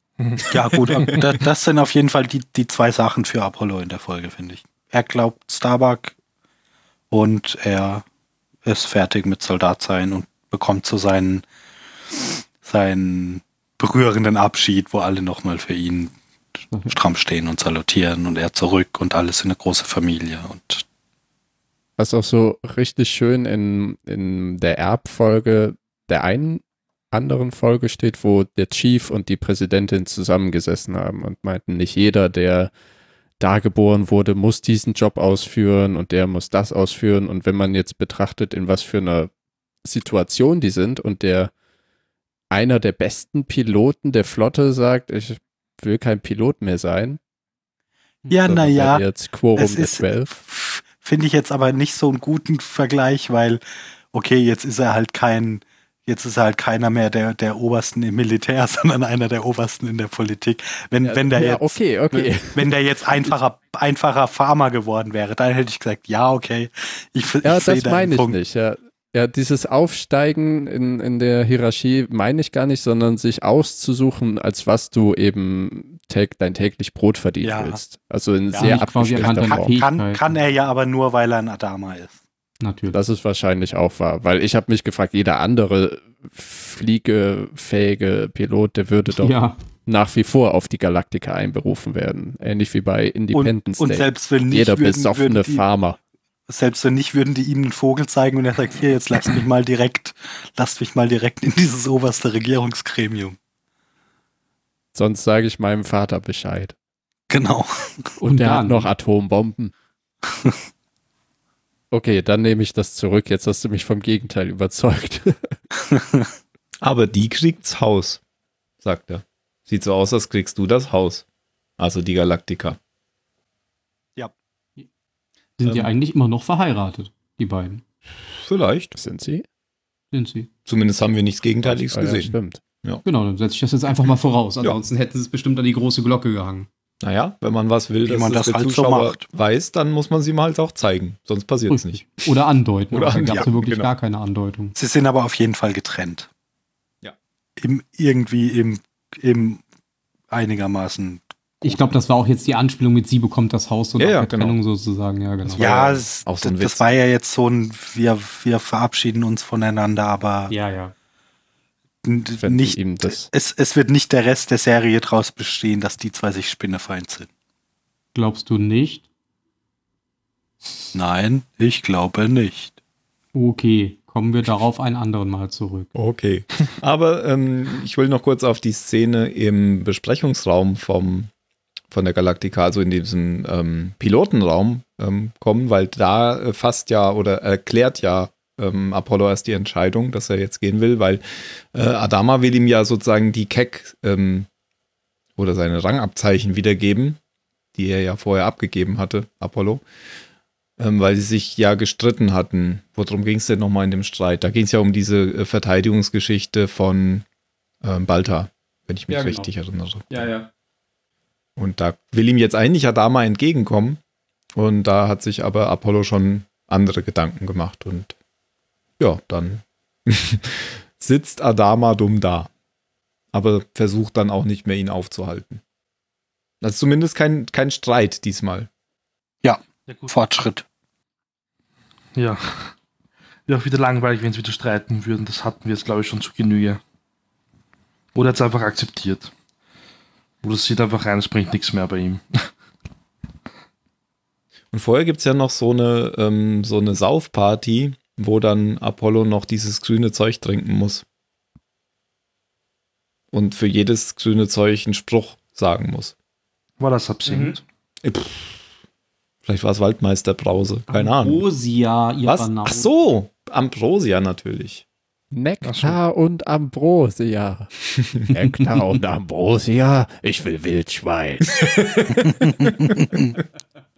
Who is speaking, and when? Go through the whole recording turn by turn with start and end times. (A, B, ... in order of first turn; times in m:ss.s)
0:00.2-0:01.0 A
0:00.5-0:06.2 B
0:07.1-0:08.0 B
0:08.6-0:11.4 B
0:12.1-0:16.1 B
0:16.8-0:20.8 B
0:22.0-0:32.7 C
0:33.4-0:39.3 C
0:39.8-0:41.5 C
0:42.5-0:47.2 C
0:48.3-0:49.0 B
0:48.4-0:50.3 C
0:49.6-0:53.6 B
0:54.1-1:08.4 B
1:01.0-1:02.7 C
1:07.4-1:19.8 C
1:17.4-1:17.8 B
1:18.5-1:22.2 B
1:18.6-1:20.2 D
1:22.6-1:23.0 D
1:22.9-1:36.0 C
1:29.1-1:29.6 D
1:33.3-1:35.7 B
1:36.5-1:43.4 B
1:44.9-1:46.7 C
1:47.3-1:48.1 B
1:48.2-1:48.9 D
1:48.2-1:49.7 C
1:51.9-1:55.6 C
1:55.9-1:56.3 B
1:56.8-1:58.2 E
1:58.8-2:01.2 E
2:01.8-2:02.8 E
2:05.6-2:07.8 D
2:05.6-2:05.9 E
2:08.4-2:08.9 E
2:09.0-2:09.4 C
2:10.1-2:10.5 D
2:10.7-2:13.0 E
2:11.6-2:12.6 C
2:13.0-2:16.7 D
2:17.0-2:22.3 E
2:18.1-2:19.3 B
2:21.7-2:24.8 D
2:22.9-2:23.9 E
2:23.2-2:23.5 B
2:24.8-2:26.3 B
2:27.6-2:29.6 B
2:30.3-2:31.9 B
2:31.6-2:35.8 D
2:34.0-2:34.6 E
2:35.6-2:36.9 E
2:35.6-2:40.5 B
2:40.5-2:40.9 D
2:42.0-2:47.3 B
2:42.4-2:43.3 C
2:48.1-2:49.1 D
2:51.0-2:52.7 B
2:53.3-2:55.9 D
2:56.0-3:01.3 E
3:01.9-3:14.5 E
3:15.4-3:17.2 E
3:17.8-3:19.8 E
3:20.8-3:27.2 E
3:27.8-3:30.1 E
3:29.1-3:29.5 D
3:30.1-3:30.5 D
3:31.6-3:34.0 E
3:34.6-3:38.1 E
3:39.0-3:42.5 E
3:43.3-3:45.6 E
3:46.6-3:48.7 E
3:49.4-3:50.6 B
3:49.9-3:50.2 A
3:52.2-3:52.7 A
3:53.5-3:56.8 A
3:58.2-3:59.3 A
4:00.4-4:02.5 A
4:04.7-4:11.0 E
4:13.3-4:16.1 E
4:16.8-4:17.6 A
4:17.3-4:17.6 D
4:18.0-4:18.6 E
4:19.4-4:21.4 E
4:20.9-4:22.9 D
4:22.2-4:24.8 E
4:25.3-4:27.7 C
4:25.6-4:26.0 A
4:28.3-4:31.5 C
4:31.5-4:33.0 E